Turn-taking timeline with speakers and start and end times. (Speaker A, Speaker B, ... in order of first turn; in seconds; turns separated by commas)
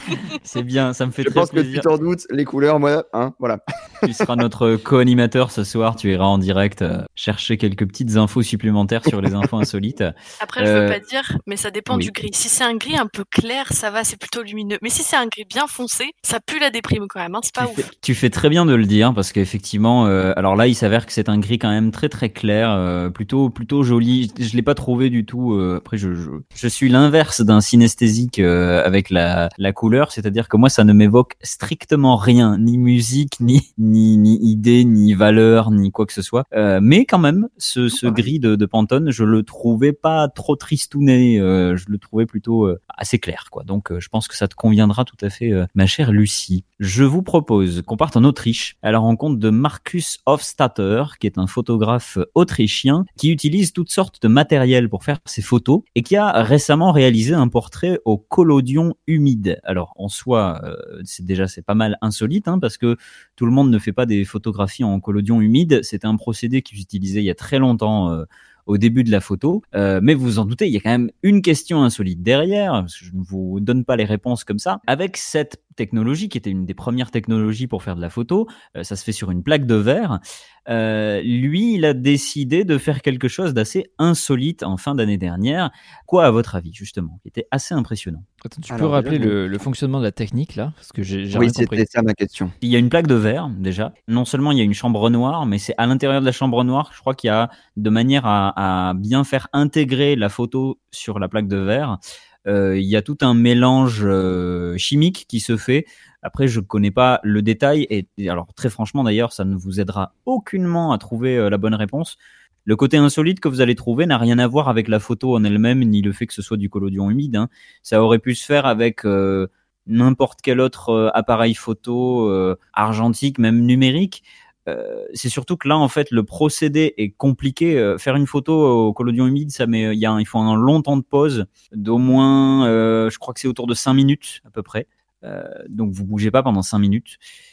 Speaker A: 0.4-1.9, Speaker B: 1.2-4.3, Speaker A: 4.0-11.0, Speaker C: 10.4-17.8, Speaker A: 17.6-88.2, Speaker B: 38.0-38.3, Speaker D: 88.4-91.8, Speaker B: 88.7-89.4, Speaker B: 91.3-92.5, Speaker A: 92.6-137.2